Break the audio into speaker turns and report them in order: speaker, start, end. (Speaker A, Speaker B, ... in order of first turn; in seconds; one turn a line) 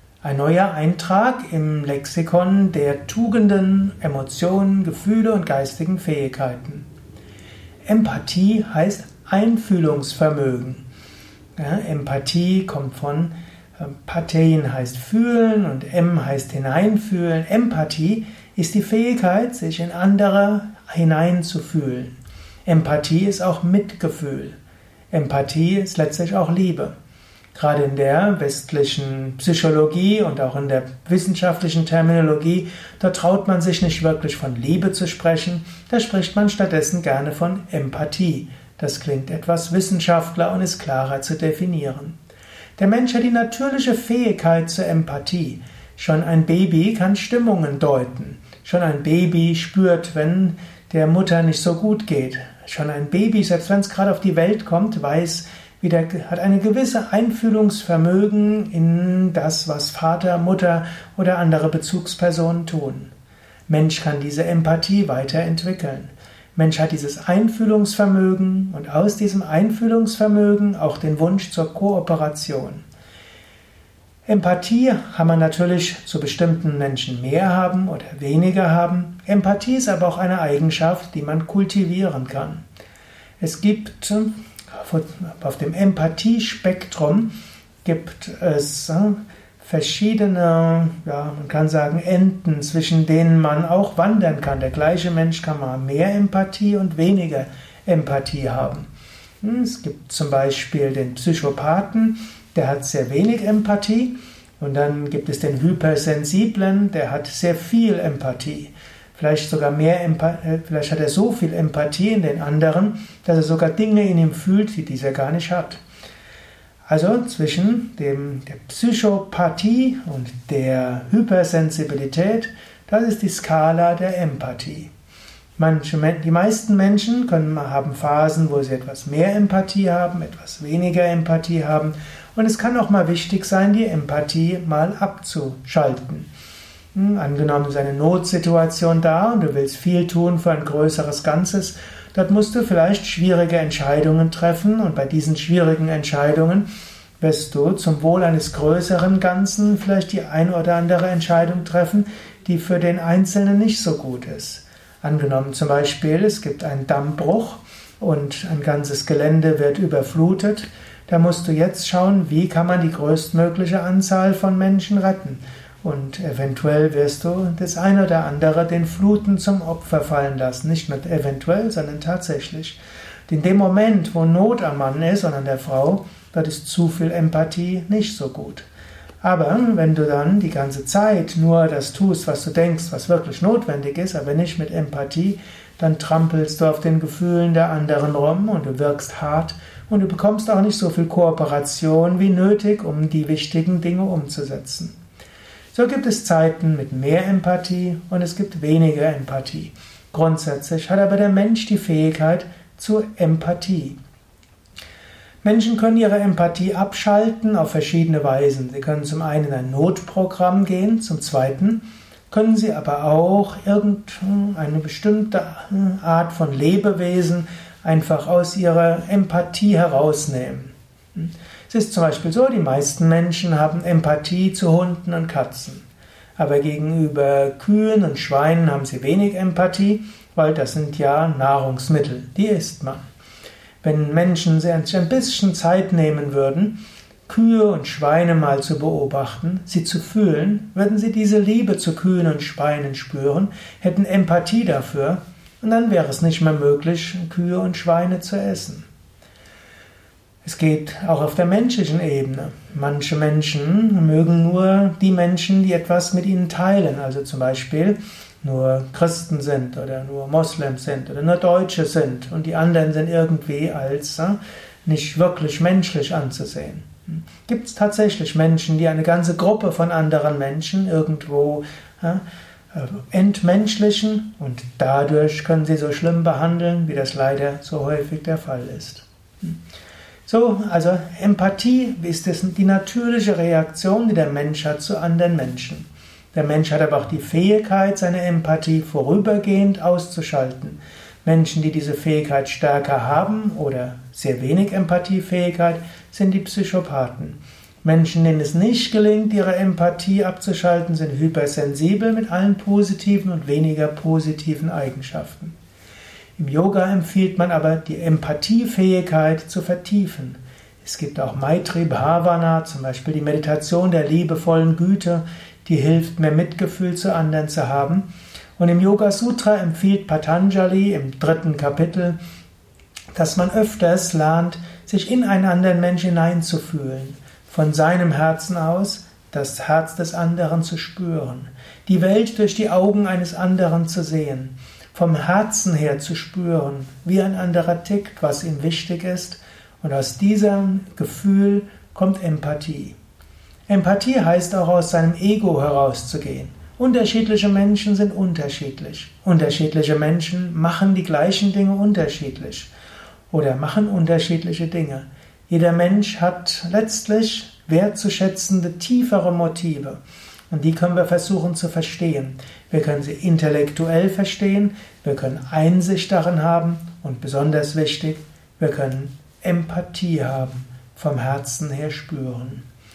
Speaker A: 0.2-6.8
Speaker A: 7.8-10.8
Speaker A: 11.6-22.1
Speaker A: 22.6-24.6
Speaker A: 25.1-26.9
Speaker A: 27.5-42.2
Speaker A: 42.8-63.1
Speaker A: 63.7-72.8
Speaker A: 74.2-82.6
Speaker A: 83.4-87.3
Speaker A: 87.8-98.9
Speaker A: 99.4-115.8
Speaker A: 116.9-124.9
Speaker A: 125.6-136.3
Speaker A: 136.9-146.7
Speaker A: 147.2-178.7
Speaker A: 179.2-194.9
Speaker A: 195.7-204.0
Speaker A: 205.4-225.8
Speaker A: 226.4-233.0
Speaker A: 233.8-248.8
Speaker A: 250.4-279.6
Speaker A: 280.3-305.5
Speaker A: 306.4-322.2
Speaker A: 323.1-342.9
Speaker A: 343.7-352.7
Speaker A: 353.3-360.0
Speaker A: 360.5-372.6